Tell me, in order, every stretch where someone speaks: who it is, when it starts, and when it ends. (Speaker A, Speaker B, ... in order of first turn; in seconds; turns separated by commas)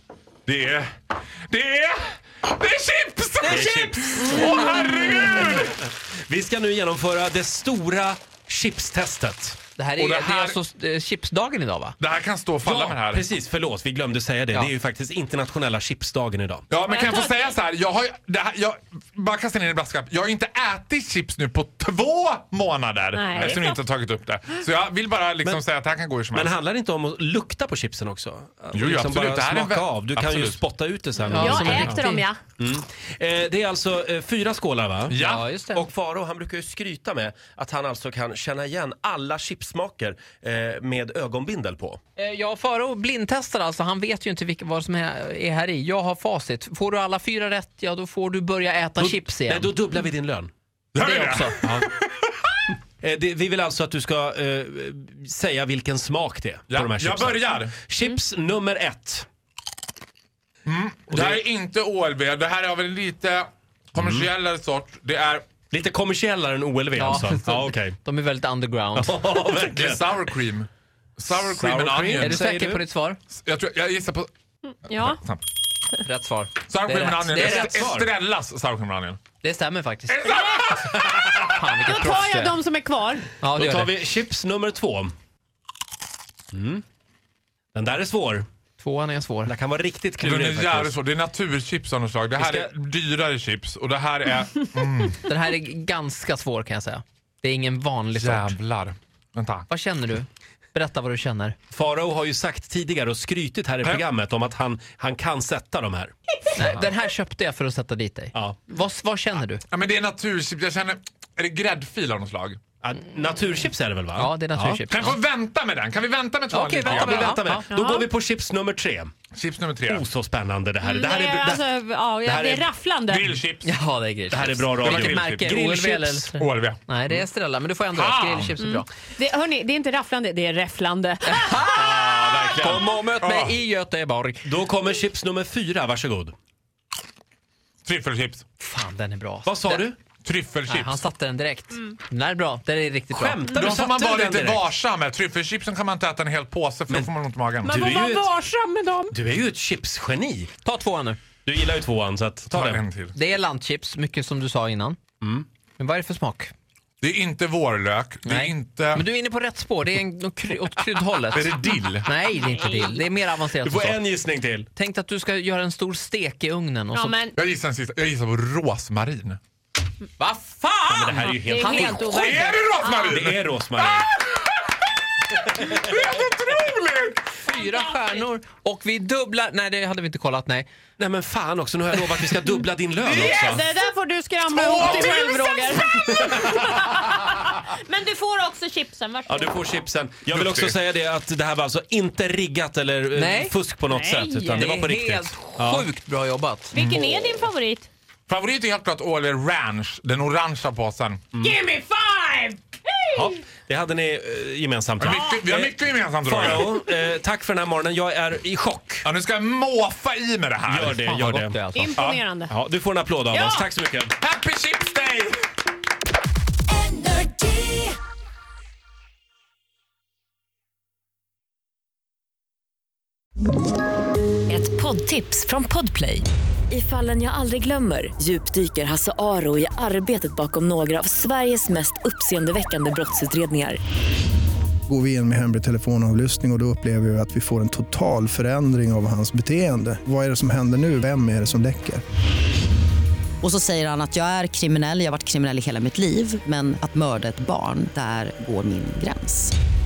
Speaker A: 0.5-0.9, Speaker A: 1.5-5.8, Speaker B: 3.4-4.2, Speaker C: 3.4-4.8, Speaker B: 5.5-9.6, Speaker C: 9.8-12.0, Speaker A: 10.0-10.6, Speaker A: 12.0-13.2, Speaker B: 12.6-16.7, Speaker A: 16.7-26.6, Speaker D: 16.9-17.5, Speaker D: 23.1-23.8, Speaker B: 26.3-32.0, Speaker A: 28.7-30.6, Speaker C: 31.2-32.3, Speaker D: 31.3-32.4, Speaker B: 32.6-35.2, Speaker A: 35.1-35.5, Speaker C: 35.2-35.9, Speaker B: 35.8-42.0, Speaker C: 42.2-49.7, Speaker B: 49.0-50.5, Speaker A: 50.9-52.3, Speaker C: 51.0-51.6, Speaker B: 51.6-51.9, Speaker B: 53.0-59.3, Speaker A: 56.7-57.8, Speaker A: 60.6-65.5, Speaker B: 61.1-61.4, Speaker B: 64.0-64.3, Speaker B: 65.7-68.0, Speaker C: 67.0-69.2, Speaker B: 69.0-70.3, Speaker A: 69.7-72.4, Speaker B: 71.3-72.8, Speaker C: 72.2-73.2, Speaker A: 73.3-74.3, Speaker D: 74.9-75.2, Speaker A: 74.9-75.4, Speaker C: 76.0-77.9, Speaker A: 76.7-79.2, Speaker B: 77.3-78.1, Speaker C: 79.4-80.4, Speaker A: 80.1-81.7, Speaker D: 80.3-80.7, Speaker C: 81.5-82.6, Speaker D: 81.8-83.3, Speaker C: 83.4-83.9, Speaker B: 83.6-85.1, Speaker B: 86.5-86.8, Speaker B: 87.7-88.5, Speaker C: 88.8-89.5, Speaker B: 89.5-91.0, Speaker A: 90.2-95.2, Speaker B: 92.4-92.7, Speaker C: 95.3-98.6, Speaker A: 98.1-99.7, Speaker C: 99.7-101.6, Speaker B: 101.7-106.1, Speaker C: 106.5-109.6, Speaker A: 109.7-112.6, Speaker B: 112.8-114.8, Speaker C: 114.2-115.2, Speaker A: 114.9-117.4, Speaker B: 116.5-119.1, Speaker C: 116.8-117.7, Speaker D: 117.7-118.1, Speaker A: 119.3-120.0, Speaker B: 119.9-121.7, Speaker D: 120.8-123.4, Speaker B: 122.2-122.7, Speaker A: 123.1-123.7, Speaker C: 123.6-128.9, Speaker B: 124.3-126.3, Speaker A: 124.8-125.6, Speaker A: 126.4-126.8, Speaker A: 127.9-128.6, Speaker D: 128.6-131.9, Speaker C: 131.3-134.4, Speaker B: 131.8-132.9, Speaker A: 133.2-133.6, Speaker B: 134.4-136.3, Speaker A: 137.8-138.4, Speaker C: 138.6-139.9, Speaker B: 139.5-140.0, Speaker A: 140.2-141.0, Speaker C: 140.7-143.4, Speaker B: 143.1-144.7, Speaker A: 143.5-147.9, Speaker D: 147.6-149.1, Speaker B: 147.7-148.3, Speaker B: 149.1-150.5, Speaker C: 150.7-151.2, Speaker B: 151.4-152.8, Speaker A: 152.5-153.2, Speaker C: 153.2-155.0, Speaker B: 155.2-155.5, Speaker C: 155.8-156.5, Speaker A: 157.0-159.0, Speaker C: 158.2-164.0, Speaker A: 161.3-162.1, Speaker D: 162.2-163.0, Speaker B: 163.6-164.7, Speaker C: 164.8-167.2, Speaker D: 166.9-167.3, Speaker A: 167.3-169.4, Speaker C: 170.2-172.0, Speaker B: 170.9-172.4, Speaker D: 171.4-173.2, Speaker A: 172.0-177.6, Speaker B: 173.1-174.1, Speaker C: 177.5-180.7, Speaker D: 177.5-178.2, Speaker B: 181.0-183.7, Speaker D: 183.0-189.7, Speaker A: 184.6-185.6, Speaker B: 184.7-186.8, Speaker B: 189.3-195.9, Speaker A: 190.3-190.8, Speaker C: 193.1-193.6, Speaker D: 193.9-194.7, Speaker C: 194.5-197.0, Speaker D: 196.7-197.9, Speaker A: 196.8-197.1, Speaker A: 198.3-201.3, Speaker C: 201.4-202.6, Speaker D: 201.8-203.0, Speaker B: 203.1-209.1, Speaker A: 205.0-206.8, Speaker A: 209.1-211.0, Speaker B: 210.7-214.2, Speaker C: 211.0-212.0, Speaker D: 211.7-212.5, Speaker D: 213.3-213.7, Speaker A: 214.2-215.4, Speaker E: 216.7-217.9, Speaker E: 224.5-233.8, Speaker F: 234.9-242.0, Speaker G: 243.4-249.5